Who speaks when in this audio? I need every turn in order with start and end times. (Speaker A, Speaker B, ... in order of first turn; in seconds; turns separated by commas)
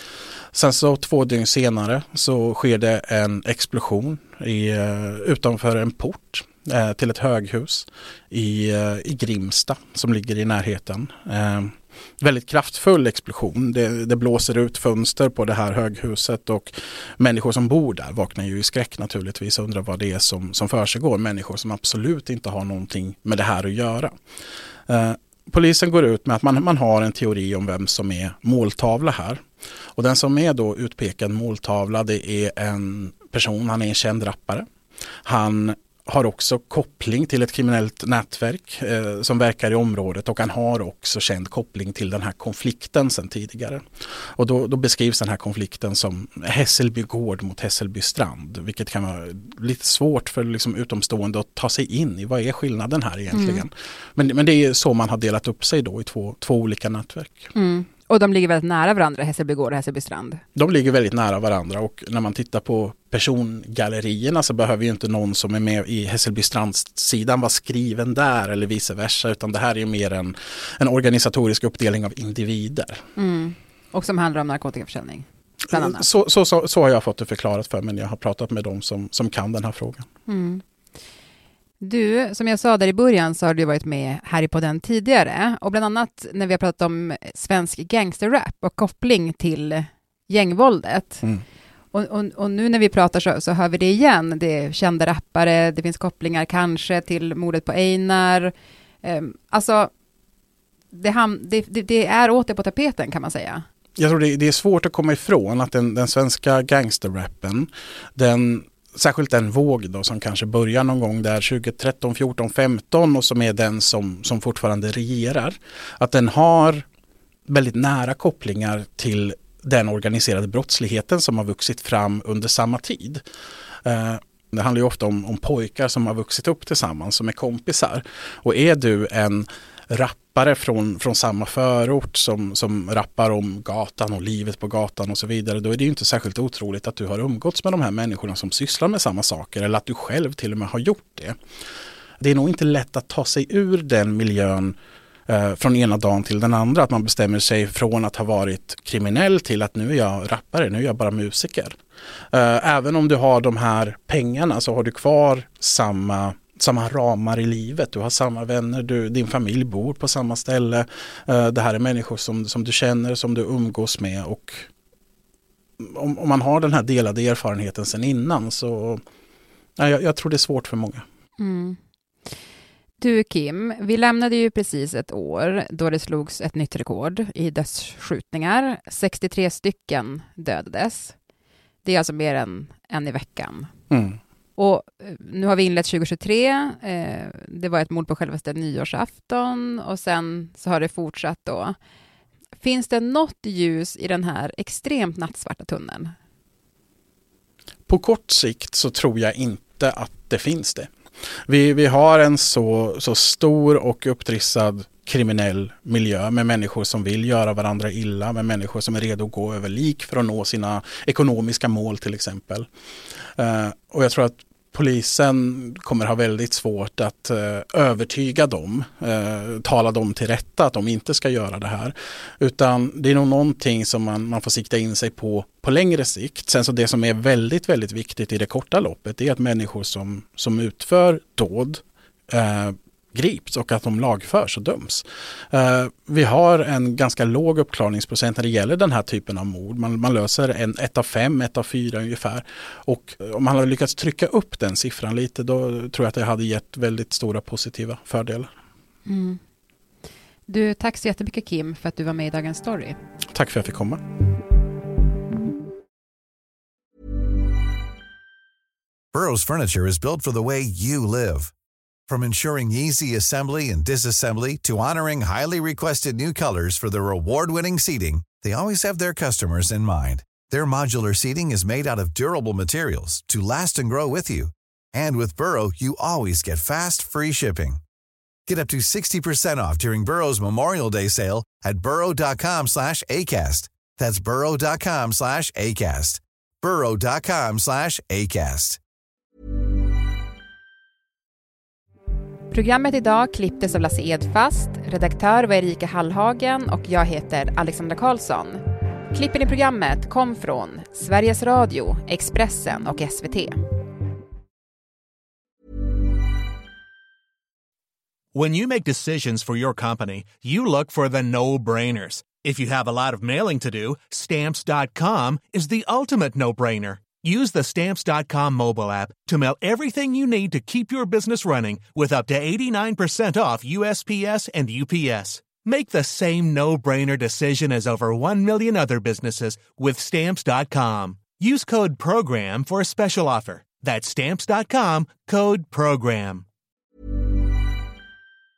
Speaker A: 0.5-24.1, Speaker A: 24.9-29.4, Speaker A: 29.9-34.6, Speaker A: 35.2-43.8, Speaker A: 44.4-57.5, Speaker B: 53.3-53.6, Speaker B: 57.5-60.4, Speaker A: 60.5-73.0, Speaker B: 73.2-76.0, Speaker A: 75.7-80.0, Speaker B: 80.3-80.6, Speaker B: 81.8-91.2, Speaker B: 91.9-99.9, Speaker B: 100.9-103.6, Speaker A: 104.0-116.8, Speaker A: 117.5-123.2, Speaker A: 123.8-141.3, Speaker A: 142.2-144.8, Speaker A: 145.3-151.8, Speaker A: 152.3-164.7, Speaker A: 165.8-169.0, Speaker A: 169.8-171.0, Speaker B: 171.4-171.8, Speaker B: 173.0-181.1, Speaker B: 181.8-183.7, Speaker A: 183.9-184.2, Speaker B: 184.6-191.8, Speaker B: 192.6-196.1, Speaker A: 197.9-200.9, Speaker A: 201.5-212.7, Speaker A: 213.4-248.5, Speaker B: 249.1-249.4, Speaker B: 250.5-253.0, Speaker A: 253.3-254.0, Speaker C: 259.1-261.5, Speaker C: 262.1-277.8, Speaker C: 278.5-288.8, Speaker B: 292.5-303.6, Speaker D: 308.3-336.4